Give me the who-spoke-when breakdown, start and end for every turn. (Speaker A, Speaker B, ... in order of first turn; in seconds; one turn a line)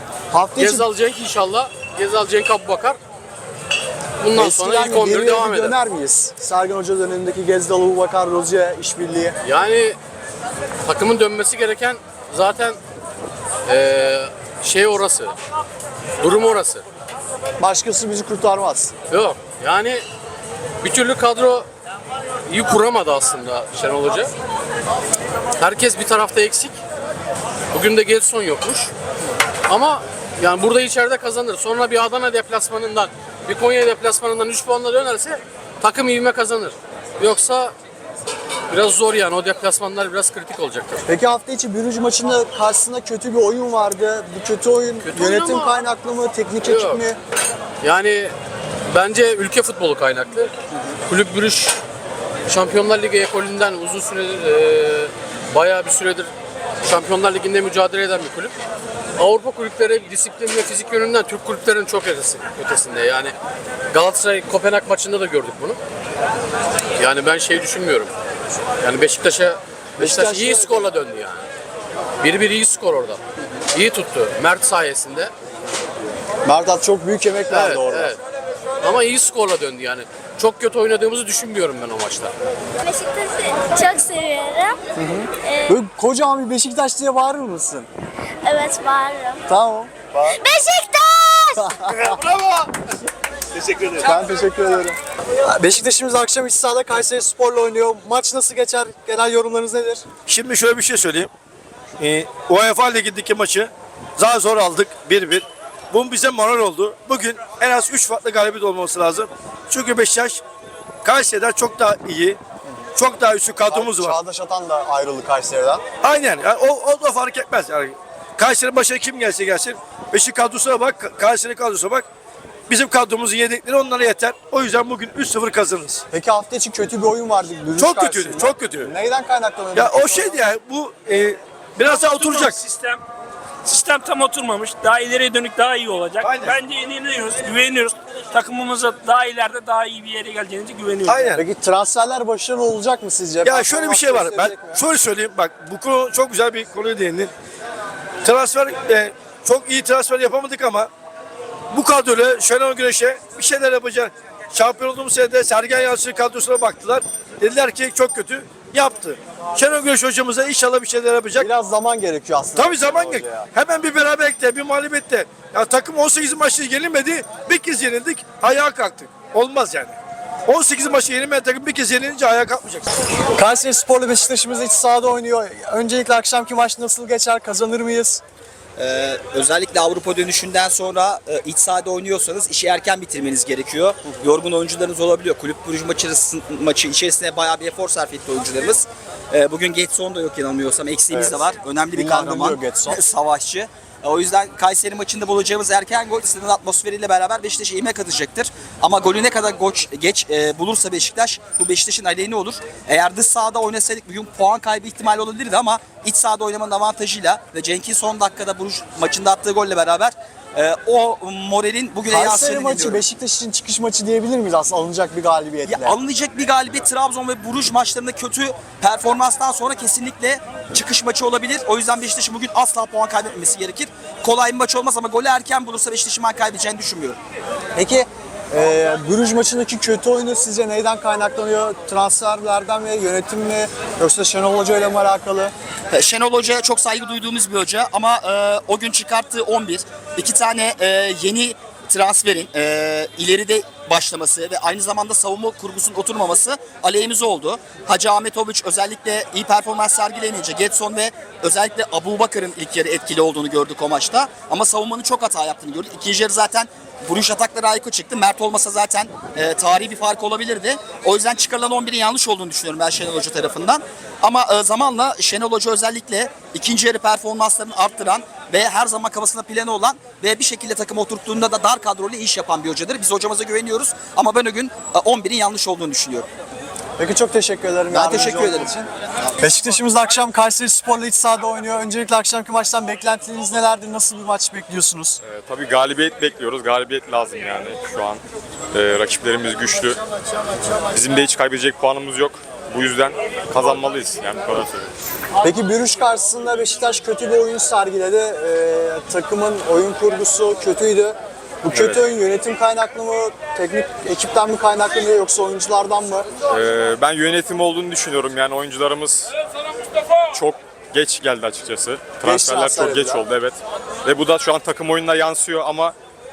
Speaker A: 0.3-0.9
Speaker B: 0.6-3.0
Speaker B: 4.2-5.8
Speaker A: 4.3-9.3
Speaker B: 9.4-10.0
Speaker B: 10.8-12.8
Speaker B: 13.7-15.3
Speaker B: 16.2-16.8
Speaker A: 17.6-18.9
Speaker B: 19.1-20.0
Speaker B: 20.8-21.7
Speaker B: 22.5-24.3
Speaker B: 25.6-26.8
Speaker B: 27.7-28.9
Speaker B: 29.7-37.7
Speaker B: 38.7-41.0
Speaker A: 41.1-47.2
Speaker B: 45.0-45.8
Speaker B: 46.6-47.0
Speaker B: 47.8-48.3
Speaker B: 48.9-50.5
Speaker B: 51.1-51.8
Speaker B: 52.5-56.3
Speaker B: 56.8-58.5
Speaker B: 59.2-63.3
Speaker B: 63.9-65.8
Speaker B: 67.0-68.1
Speaker B: 68.8-71.5
Speaker A: 70.0-70.8
Speaker B: 72.2-75.3
Speaker A: 76.5-78.1
Speaker B: 77.5-78.2
Speaker B: 78.8-82.3
Speaker C: 82.8-84.8
Speaker A: 85.0-87.9
Speaker C: 85.4-85.7
Speaker C: 88.4-89.4
Speaker A: 89.5-90.4
Speaker C: 90.3-91.7
Speaker A: 91.6-92.2
Speaker A: 94.0-100.0
Speaker D: 100.2-101.3
Speaker D: 102.0-110.4
Speaker D: 111.0-112.4
Speaker D: 113.0-114.2
Speaker A: 113.7-115.8
Speaker D: 116.0-122.1
Speaker D: 122.7-126.0
Speaker A: 126.1-130.4
Speaker D: 127.8-128.9
Speaker D: 129.7-132.6
Speaker E: 131.9-133.0
Speaker E: 133.7-141.3
Speaker D: 136.2-136.6
Speaker D: 141.1-141.3
Speaker A: 141.3-144.8
Speaker D: 143.4-147.3
Speaker D: 148.2-150.9
Speaker D: 151.7-161.5
Speaker A: 161.3-163.5
Speaker D: 162.5-169.9
Speaker D: 170.5-172.8
Speaker A: 173.3-178.2
Speaker F: 178.8-213.0
Speaker A: 191.1-191.4
Speaker A: 191.9-193.0
Speaker A: 212.1-216.0
Speaker F: 215.7-227.2
Speaker A: 227.8-235.5
Speaker F: 235.9-276.3
Speaker A: 277.0-278.9
Speaker F: 277.9-278.7
Speaker A: 279.4-285.2
Speaker G: 285.2-288.2
Speaker G: 288.7-290.0
Speaker G: 290.9-294.9
Speaker A: 295.4-306.3
Speaker G: 301.7-302.0
Speaker G: 306.5-309.3
Speaker G: 310.3-315.9
Speaker A: 312.2-313.3